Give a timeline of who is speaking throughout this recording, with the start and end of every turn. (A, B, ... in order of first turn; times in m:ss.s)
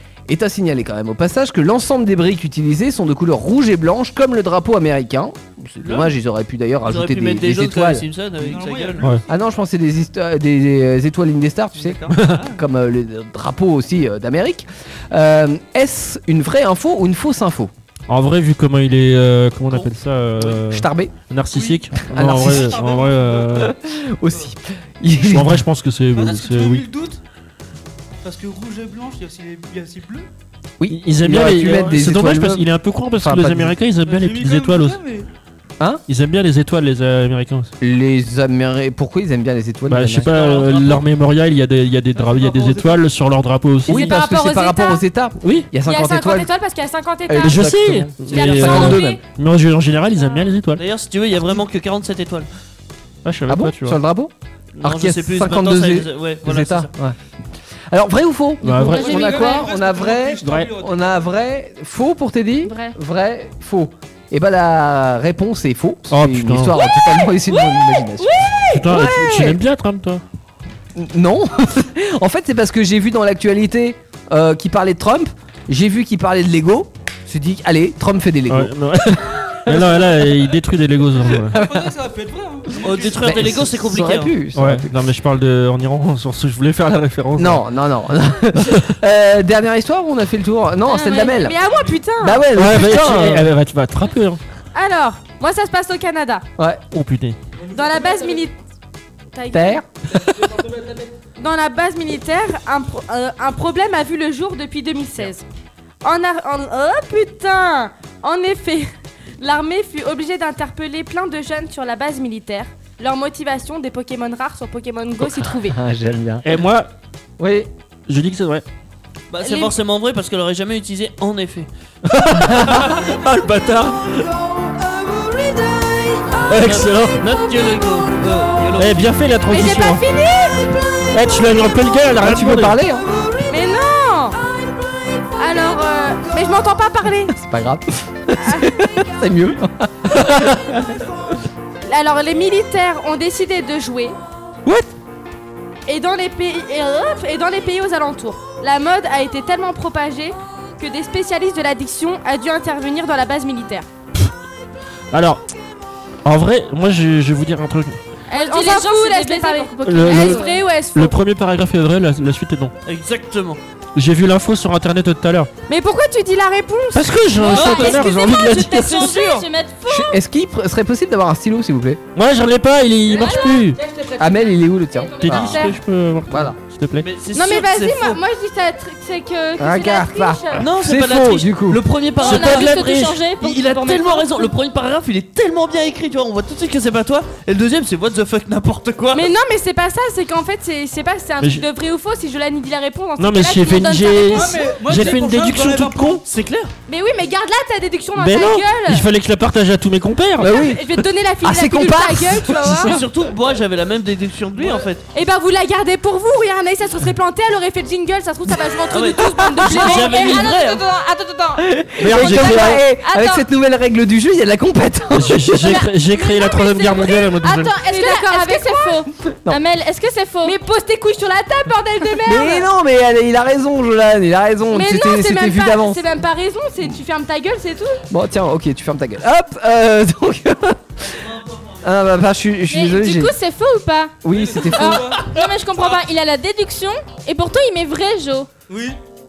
0:00.3-0:08.0 A
0:05.8-0:06.1 B
0:06.8-0:09.2 B
0:08.4-0:09.5 C
0:09.3-0:17.7 A
0:11.8-0:12.6 B
0:12.1-0:12.4 D
0:18.1-0:23.7 D
0:20.7-0:21.1 A
0:21.5-0:23.6 C
0:22.1-0:22.8 A
0:23.5-0:25.6 A
0:25.2-0:26.8 D
0:26.1-0:27.2 C
0:28.2-0:30.3 C
0:30.8-0:32.6 A
0:30.9-0:35.0 D
0:33.2-0:33.7 A
0:34.0-0:35.3 C
0:36.1-0:37.7 D
0:37.8-0:40.3 A
0:39.9-0:44.2 D
0:40.3-0:41.0 B
0:42.1-0:43.0 C
0:43.8-0:46.5 A
0:43.9-0:45.0 E
0:45.4-0:45.7 D
0:45.8-0:47.7 E
0:47.3-0:49.2 A
0:47.4-0:50.8 D
0:48.3-0:49.2 E
0:50.1-0:50.5 E
0:50.8-0:52.5 B
0:53.2-0:54.0 D
0:53.5-0:57.2 A
0:54.8-0:56.9 B
0:57.9-1:09.6 A
0:58.6-0:59.1 D
0:58.8-1:01.3 C
0:58.9-0:59.7 F
1:00.4-1:00.7 D
1:02.6-1:03.0 F
1:06.1-1:06.8 D
1:07.5-1:08.5 F
1:07.6-1:08.0 E
1:08.7-1:10.2 D
1:10.9-1:20.1 A
1:18.5-1:21.6 D
1:21.4-1:23.7 C
1:21.5-1:21.9 A
1:22.8-1:24.3 B
1:23.0-1:25.0 A
1:24.5-1:27.6 D
1:27.4-1:31.6 A
1:30.9-1:32.4 E
1:30.9-1:31.3 F
1:31.6-1:32.0 C
1:32.2-1:33.5 A
1:32.5-1:34.4 D
1:34.7-1:36.4 E
1:36.9-1:37.4 D
1:37.6-1:38.5 C
1:37.7-1:38.5 E
1:39.3-1:39.8 E
1:39.5-1:39.8 A
1:40.1-1:41.1 C
1:41.4-1:45.4 E
1:46.0-1:55.8 E
1:55.2-1:56.5 A
1:56.4-1:56.9 D
1:57.4-1:57.7 A
1:58.1-1:58.6 D
1:59.3-2:01.7 B
1:59.4-1:59.7 E
2:02.0-2:04.2 D
2:02.4-2:03.0 A
2:04.9-2:06.7 E
2:06.5-2:07.2 D
2:06.5-2:09.1 B
2:08.8-2:10.0 D
2:09.5-2:10.7 E
2:11.1-2:12.8 D
2:12.2-2:13.0 A
2:13.5-2:14.4 E
2:15.4-2:17.3 E
2:17.3-2:20.9 A
2:18.4-2:18.8 E
2:20.1-2:20.6 D
2:21.8-2:24.2 E
2:25.8-2:33.9 E
2:35.1-2:35.4 D
2:36.2-2:38.0 D
2:38.3-2:40.7 F
2:38.3-2:41.2 E
2:39.8-2:40.4 D
2:40.9-2:42.7 D
2:42.8-2:43.6 B
2:44.0-2:45.5 D
2:45.7-2:48.2 E
2:46.9-2:49.1 D
2:47.4-2:50.2 F
2:47.5-2:48.0 B
2:48.6-2:49.4 B
2:48.9-2:49.3 E
2:49.9-2:52.0 A
2:52.1-2:53.8 D
2:53.1-2:53.7 E
2:53.1-2:53.7 F
2:53.8-2:54.6 C
2:54.2-2:55.6 A
2:55.1-2:55.8 E
2:55.2-2:57.1 D
2:56.3-2:56.6 A
2:57.0-2:58.2 B
2:57.3-3:00.6 E
2:59.6-3:01.8 A
3:00.6-3:09.3 B
3:02.2-3:04.5 F
3:02.2-3:03.2 D
3:09.1-3:14.7 E
3:11.4-3:11.6 D
3:13.2-3:16.2 D
3:14.3-3:16.2 C
3:16.2-3:16.7 B
3:16.9-3:19.0 E
3:18.2-3:20.6 D
3:20.4-3:22.9 A
3:20.5-3:23.0 E
3:22.8-3:25.0 B
3:25.1-3:33.4 E
3:28.9-3:30.8 B
3:29.6-3:30.0 A
3:30.1-3:30.4 F
3:31.6-3:35.7 A
3:32.0-3:32.8 D
3:35.1-3:37.7 D
3:36.1-3:40.6 F
3:36.2-3:39.0 E
3:40.4-3:42.7 E
3:42.2-3:46.0 A
3:44.7-3:48.0 E
3:48.1-3:51.1 A
3:51.1-3:51.7 B
3:51.8-3:53.4 A
3:52.7-3:54.2 F
3:54.2-3:55.1 A
3:54.2-3:55.3 C
3:54.7-3:58.5 F
3:58.7-3:59.0 C